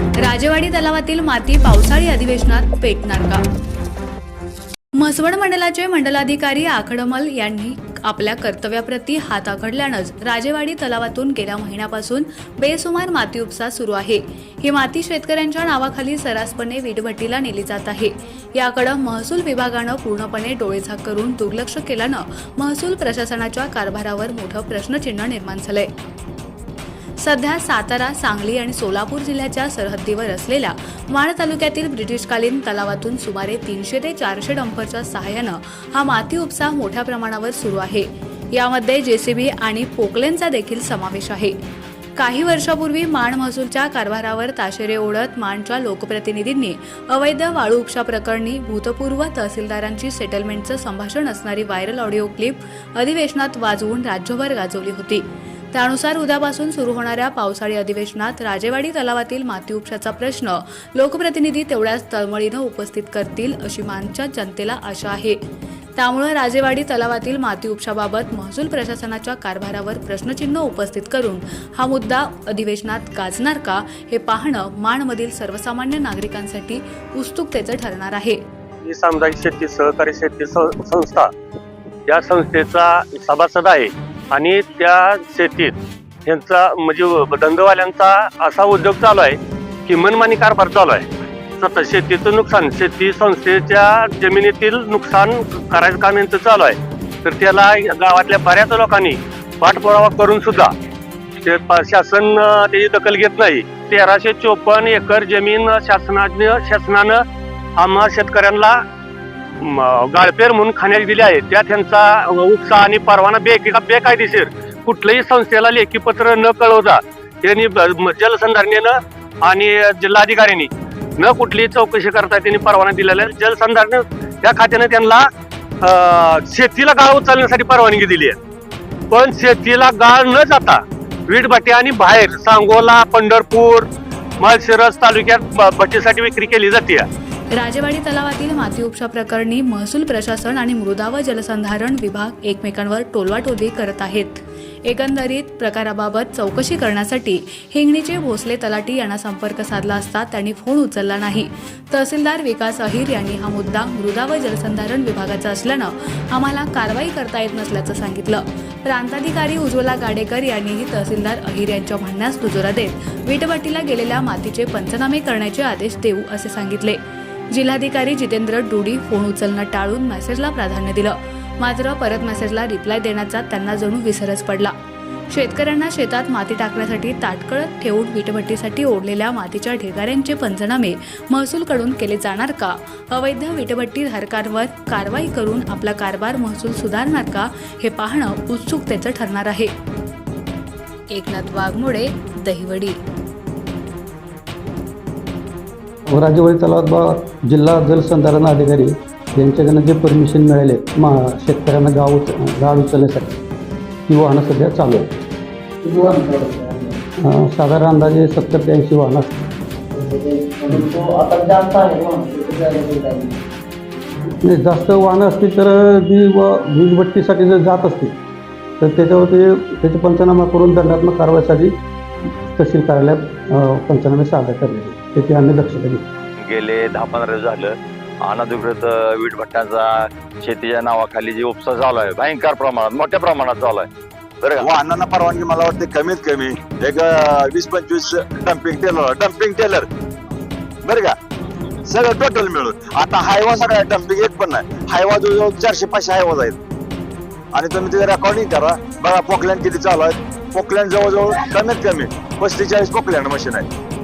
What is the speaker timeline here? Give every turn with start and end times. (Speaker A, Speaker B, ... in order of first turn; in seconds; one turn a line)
Speaker A: 0.2-3.4
Speaker A: 5.0-25.9
Speaker A: 27.2-41.6
Speaker A: 42.2-65.4
Speaker A: 66.0-78.4
Speaker B: 78.8-81.3
Speaker B: 82.1-85.7
Speaker B: 86.2-91.0
Speaker B: 91.6-100.7
Speaker B: 101.4-107.2
Speaker B: 107.8-108.8
Speaker B: 109.6-125.3
Speaker B: 125.8-128.4
Speaker B: 129.1-133.9
Speaker B: 134.4-137.1
Speaker A: 137.5-167.0
Speaker A: 167.5-174.7
Speaker A: 175.3-189.7
Speaker A: 191.1-193.0
Speaker C: 196.1-203.4
Speaker C: 204.1-205.1
Speaker D: 206.0-207.0
Speaker C: 207.2-209.4
Speaker D: 210.0-213.3
Speaker C: 214.4-218.2
Speaker C: 218.8-221.8
Speaker C: 222.6-226.1
Speaker E: 226.4-233.9
Speaker E: 234.4-234.7
Speaker F: 234.6-239.9
Speaker F: 240.8-241.2
Speaker F: 241.8-246.6
Speaker F: 247.5-253.7